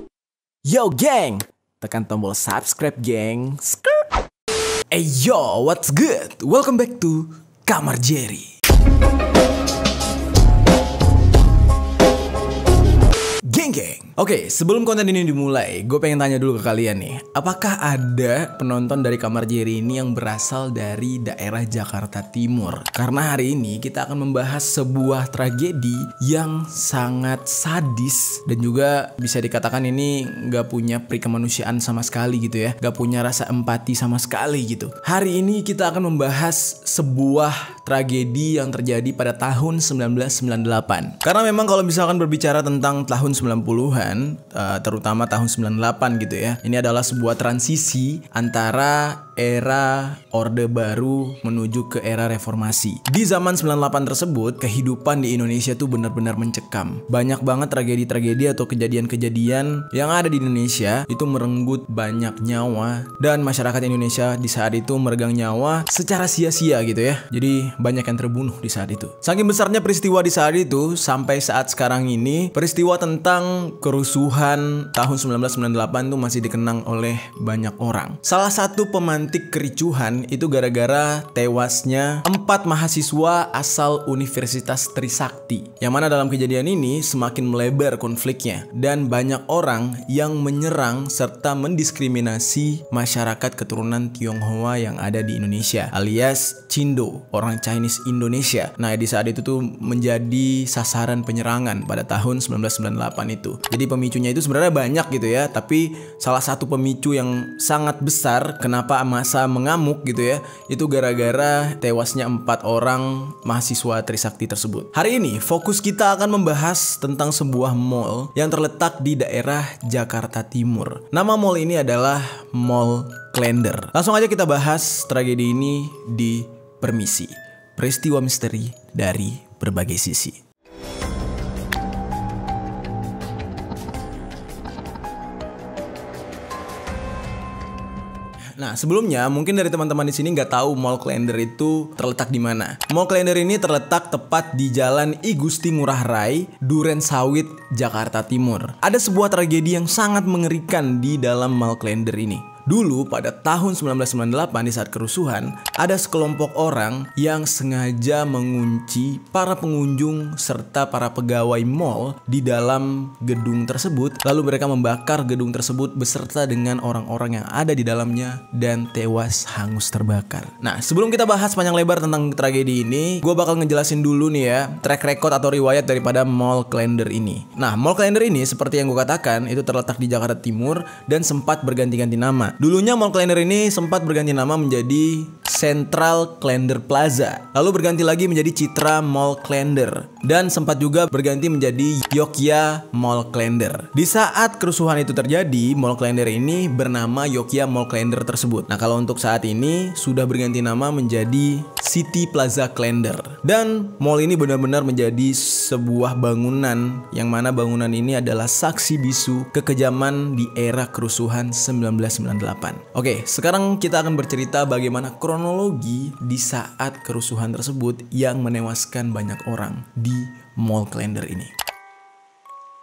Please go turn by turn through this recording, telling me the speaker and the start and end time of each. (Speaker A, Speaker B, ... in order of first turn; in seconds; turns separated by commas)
Speaker A: 0.7-4.0, Speaker A: 4.9-8.5, Speaker A: 13.4-130.4, Speaker A: 138.6-221.5